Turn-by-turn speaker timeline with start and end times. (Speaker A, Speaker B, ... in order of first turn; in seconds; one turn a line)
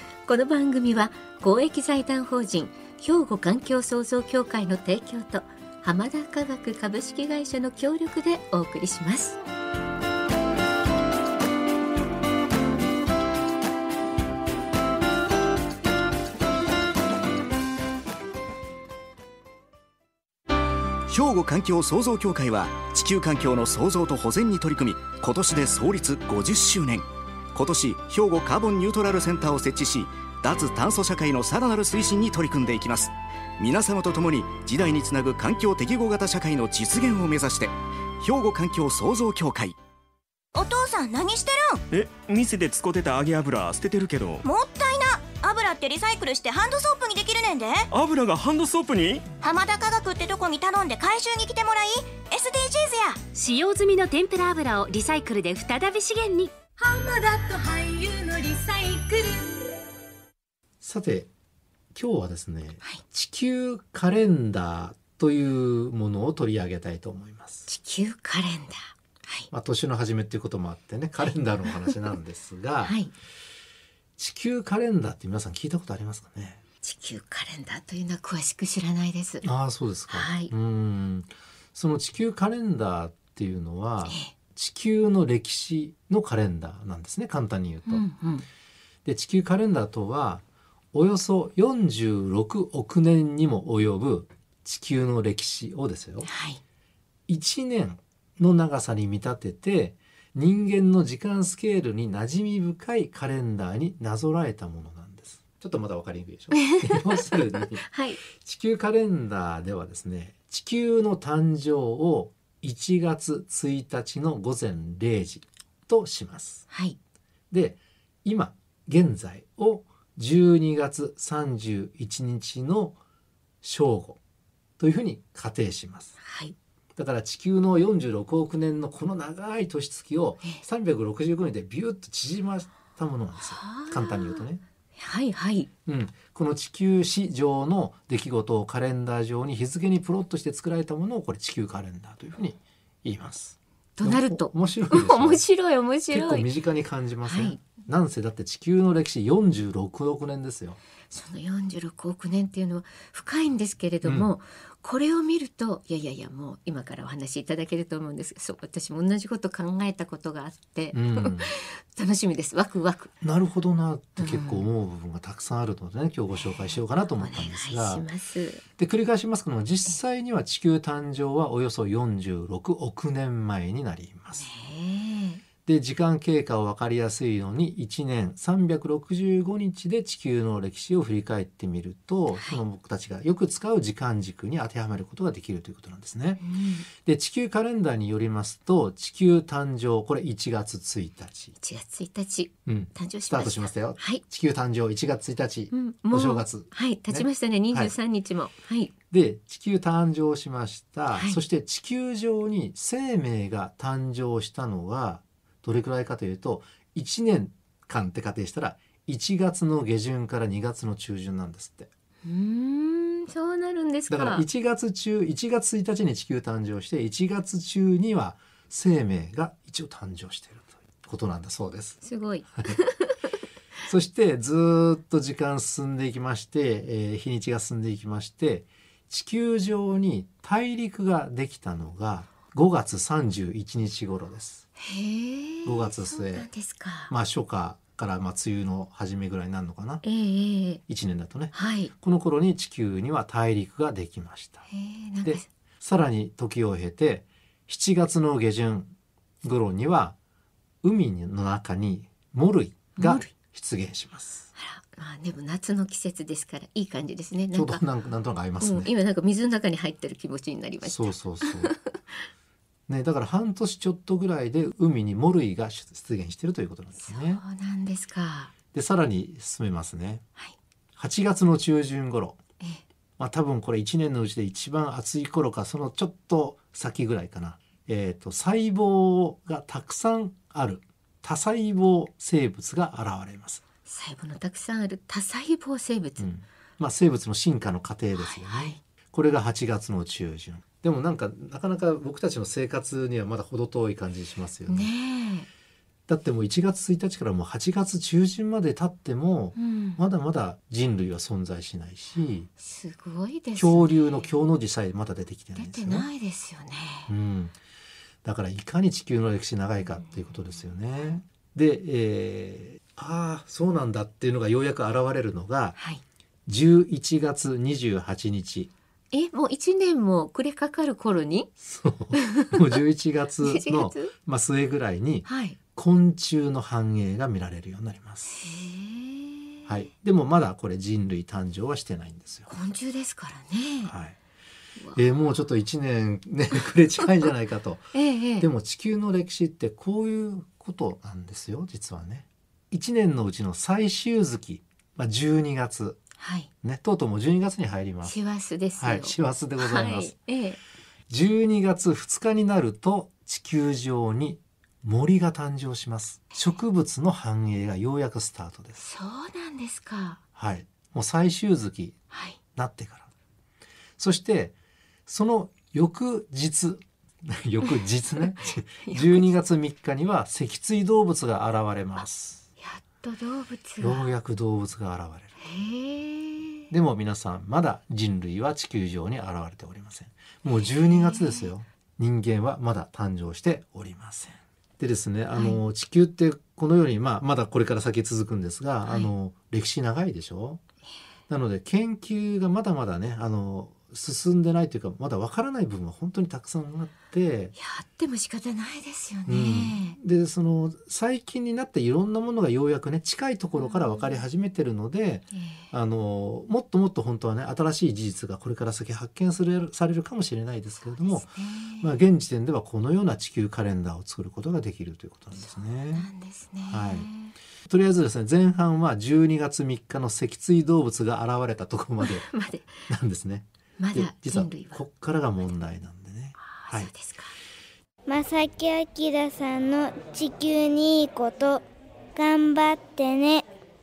Speaker A: 0.2-9.4
Speaker B: 21.1-39.8
Speaker C: 40.5-41.8
Speaker D: 41.9-44.4
Speaker C: 44.4-47.9
Speaker D: 47.9-49.2
Speaker C: 49.4-53.2
Speaker E: 53.3-56.5
Speaker C: 56.8-59.7
Speaker F: 60.8-61.3
Speaker F: 61.9-67.7
Speaker A: 67.7-69.5
Speaker F: 69.5-73.0
Speaker A: 72.8-73.1
Speaker F: 74.2-76.6
Speaker A: 76.8-79.4
Speaker F: 79.4-88.0
Speaker A: 80.1-80.5
Speaker A: 84.0-84.3
Speaker A: 87.9-88.5
Speaker F: 89.0-96.3
Speaker A: 96.2-96.6
Speaker F: 97.3-116.7
Speaker A: 106.5-108.2
Speaker A: 116.7-117.0
Speaker F: 117.5-123.0
Speaker F: 123.6-124.2
Speaker F: 124.8-126.2
Speaker A: 126.2-126.5
Speaker F: 127.0-134.6
Speaker A: 133.4-135.7
Speaker F: 135.8-145.4
Speaker A: 144.0-146.5
Speaker F: 146.1-150.8
Speaker A: 147.2-147.6
Speaker A: 151.1-163.1
Speaker F: 154.0-154.3
Speaker F: 160.9-161.5
Speaker F: 163.2-168.1
Speaker A: 164.2-164.7
Speaker A: 166.3-168.6
Speaker F: 168.8-174.5
Speaker A: 174.3-175.4
Speaker F: 175.6-186.4
Speaker A: 182.3-182.6
Speaker A: 186.4-186.9
Speaker F: 186.9-191.5
Speaker A: 191.6-194.2
Speaker F: 192.7-197.9
Speaker A: 195.7-198.9
Speaker F: 199.1-211.9
Speaker A: 201.1-201.4
Speaker A: 212.2-214.4
Speaker F: 214.1-222.0
Speaker A: 222.0-223.3
Speaker F: 223.8-234.6
Speaker A: 234.8-237.1
Speaker F: 235.6-236.5
Speaker F: 237.1-240.0
Speaker A: 240.0-240.8
Speaker F: 240.9-244.6
Speaker A: 241.5-241.9
Speaker A: 244.7-245.4
Speaker F: 245.2-250.2
Speaker F: 250.8-254.5
Speaker A: 253.0-253.3
Speaker A: 254.6-257.8
Speaker F: 257.5-258.9
Speaker A: 258.6-262.1
Speaker F: 260.8-261.7
Speaker F: 262.9-267.4
Speaker A: 267.0-268.5
Speaker F: 268.7-270.2
Speaker F: 271.0-272.4
Speaker F: 273.2-283.6
Speaker A: 283.9-286.3
Speaker F: 286.2-294.9
Speaker A: 288.2-288.8
Speaker A: 294.7-295.5
Speaker F: 296.1-302.5
Speaker A: 299.6-300.0
Speaker A: 302.6-304.3
Speaker F: 303.6-306.1
Speaker A: 305.5-307.1
Speaker F: 307.1-307.5
Speaker F: 308.2-315.8
Speaker F: 316.5-318.7
Speaker A: 319.1-321.5
Speaker F: 321.6-328.4
Speaker A: 322.1-322.8
Speaker A: 323.4-324.1
Speaker A: 325.2-325.6
Speaker A: 328.3-329.7
Speaker F: 329.7-332.5
Speaker A: 332.5-333.9
Speaker F: 333.8-334.1
Speaker F: 334.9-346.0
Speaker A: 337.9-338.5
Speaker A: 346.2-346.5
Speaker F: 346.6-348.1
Speaker A: 348.0-350.6
Speaker F: 348.8-350.1
Speaker F: 351.1-358.8
Speaker A: 358.8-360.2
Speaker F: 360.4-361.9
Speaker A: 362.1-362.4
Speaker F: 362.5-363.1
Speaker F: 364.0-364.5
Speaker F: 365.1-372.4
Speaker A: 368.8-369.3
Speaker A: 372.6-374.1
Speaker F: 373.8-375.3
Speaker A: 375.4-376.7
Speaker F: 376.7-390.6
Speaker A: 380.5-381.5
Speaker A: 385.3-385.6
Speaker A: 388.8-389.1
Speaker F: 391.3-397.5
Speaker A: 397.6-400.0
Speaker F: 399.3-411.3
Speaker A: 403.5-404.2
Speaker A: 405.3-405.6
Speaker A: 410.9-411.9
Speaker F: 411.8-416.1
Speaker A: 415.4-417.3
Speaker F: 416.7-417.1
Speaker F: 417.7-422.2
Speaker A: 422.0-422.8
Speaker F: 422.9-426.9
Speaker A: 423.8-424.8
Speaker A: 426.4-427.4
Speaker G: 428.1-431.6
Speaker G: 432.1-433.5